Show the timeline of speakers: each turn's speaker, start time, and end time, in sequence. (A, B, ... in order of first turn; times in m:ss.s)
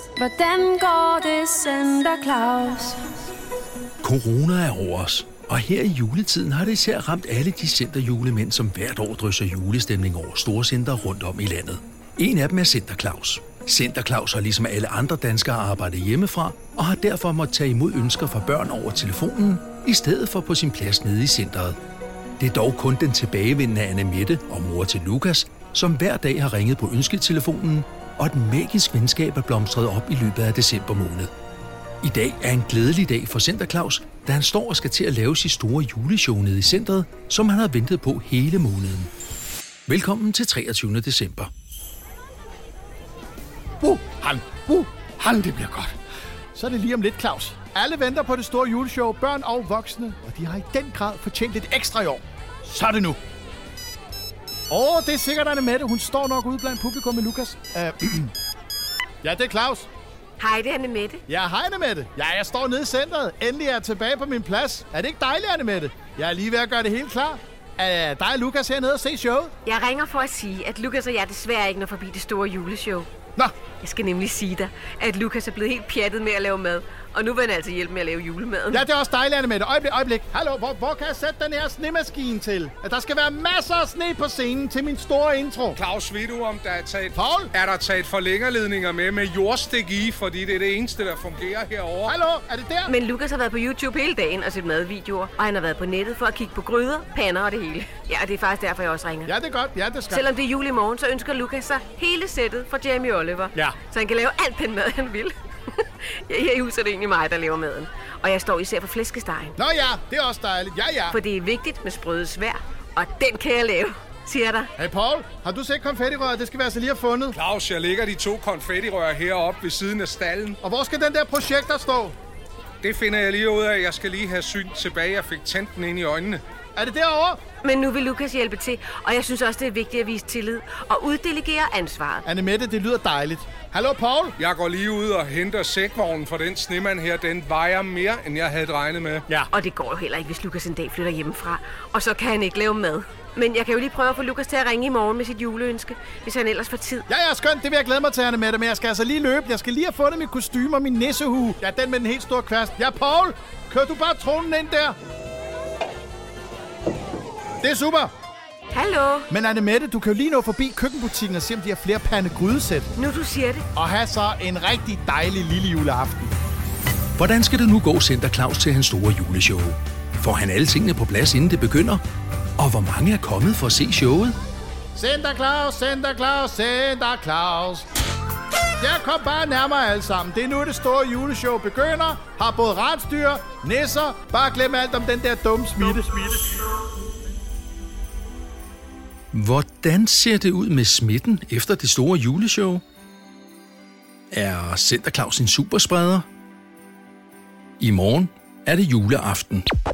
0:00.2-0:03.0 A
0:04.0-0:21.8 B
0:22.4-0:31.3 B
0:32.0-0:39.1 B
0:39.9-0:41.5 B
0:43.8-0:45.9 C
0:46.5-0:53.2 C
0:54.7-0:58.3 C
0:59.2-0:59.9 C
1:00.4-1:01.2 D
1:01.3-1:09.5 C
1:09.6-1:13.1 D
1:13.8-1:18.9 D
1:18.7-1:25.8 C
1:25.8-1:32.2 E
1:27.2-1:27.5 C
1:32.1-1:32.9 C
1:32.9-1:39.3 D
1:39.3-1:40.2 C
1:40.1-1:49.6 D
1:49.6-1:51.2 C
1:51.1-1:54.7 D
1:54.8-1:57.4 C
1:57.3-2:00.6 E
2:00.6-2:02.2 C
2:02.8-2:06.4 E
2:06.8-2:07.4 C
2:07.6-2:12.3 D
2:12.3-2:14.4 C
2:14.4-2:19.2 E
2:19.5-2:27.1 D
2:27.1-2:35.0 C
2:37.6-2:38.1 C
2:38.7-2:39.3 D
2:39.3-2:42.9 C
2:43.0-2:43.6 D
2:43.8-2:46.3 C
2:47.2-2:52.0 B
2:52.6-2:54.4 B
2:55.0-2:57.9 C
2:58.8-3:06.6 C
3:09.3-3:12.8 B
3:14.3-3:16.3 B
3:17.8-3:19.6 B